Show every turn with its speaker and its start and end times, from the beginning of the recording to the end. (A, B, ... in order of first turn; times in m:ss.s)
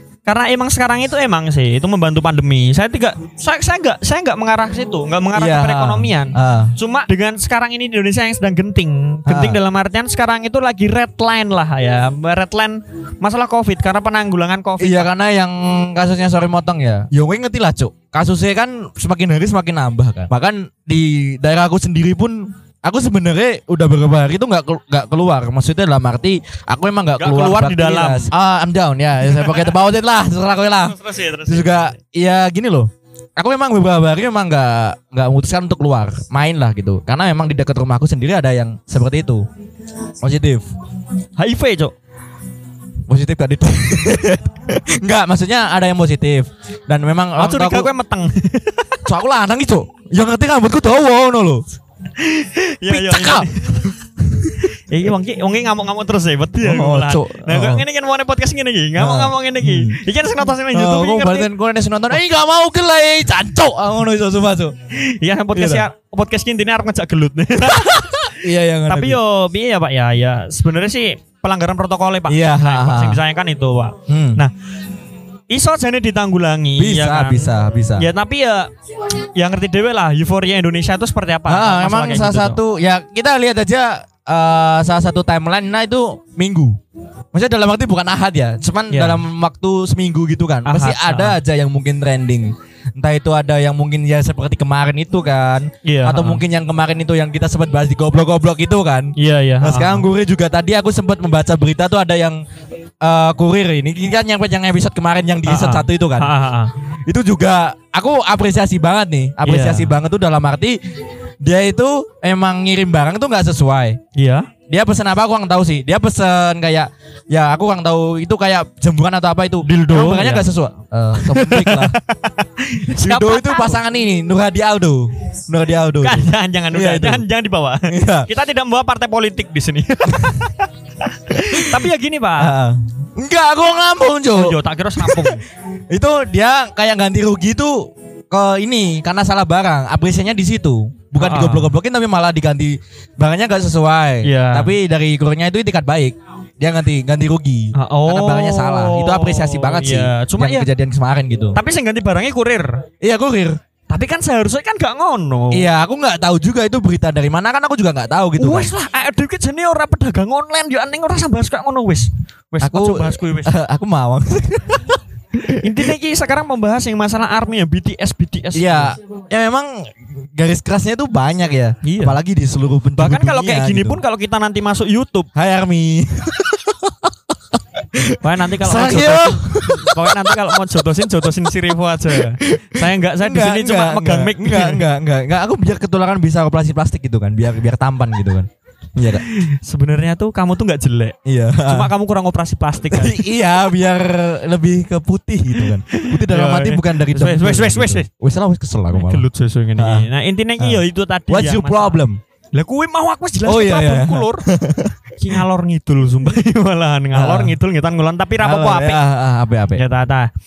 0:00.2-0:15.1 A
0:05.3-0:06.8 B
0:09.2-0:09.6 B
0:14.8-0:39.4 B
0:27.2-0:28.3 A
0:29.3-0:29.8 A
0:30.8-0:31.9 A
0:40.2-0:40.7 B
0:41.4-0:41.9 A
0:43.1-0:47.9 B
0:47.4-0:49.0 A
0:49.0-0:51.6 B
0:52.2-0:53.8 A
0:52.9-0:54.6 B
0:54.9-1:01.5 A
0:56.6-0:57.8 B
0:59.0-1:00.0 B
1:00.7-1:04.7 B
1:04.9-1:08.4 A
1:05.5-1:05.8 B
1:07.7-1:09.2 B
1:08.9-1:14.5 A
1:12.3-1:13.2 B
1:14.1-1:14.4 B
1:15.5-1:18.7 A
1:16.8-1:18.1 B
1:19.3-1:22.6 A
1:21.5-1:26.8 B
1:27.3-1:42.4 B
1:28.9-1:29.2 A
1:30.6-1:31.4 A
1:35.8-1:36.4 A
1:39.2-1:40.0 A
1:43.0-1:46.3 B
1:45.4-1:46.7 A
1:47.1-1:50.8 B
1:49.4-1:49.9 A
1:51.4-1:54.0 B
1:54.1-1:54.5 A
1:54.7-2:02.0 B
1:59.6-2:00.5 A
2:01.2-2:03.8 A
2:02.9-2:07.2 B
2:06.0-2:12.5 A
2:07.9-2:08.3 B
2:12.4-2:15.4 B
2:14.3-2:15.4 A
2:15.9-2:31.6 B
2:21.2-2:21.7 A
2:24.2-2:24.8 A
2:27.7-2:30.7 A
2:31.5-2:32.8 A
2:33.0-2:33.6 B
2:33.9-2:35.7 A
2:35.5-2:38.7 B
2:38.4-2:43.5 A
2:42.6-2:45.9 B
2:45.6-2:49.0 A
2:48.5-2:54.0 B
2:51.8-2:52.2 A
2:53.0-2:55.3 A
2:55.3-2:57.1 B
2:57.9-3:00.5 B
2:58.2-3:04.8 A
3:02.1-3:09.2 B
3:09.1-3:13.2 A
3:11.2-3:11.9 B
3:12.9-3:19.2 B
3:15.6-3:18.0 A
3:18.9-3:22.0 A
3:19.8-3:20.1 B
3:20.6-3:22.2 B
3:22.5-3:24.4 A
3:23.4-3:24.9 B
3:25.2-3:29.0 A
3:27.1-3:27.6 B
3:28.4-3:29.8 B
3:29.7-3:30.3 A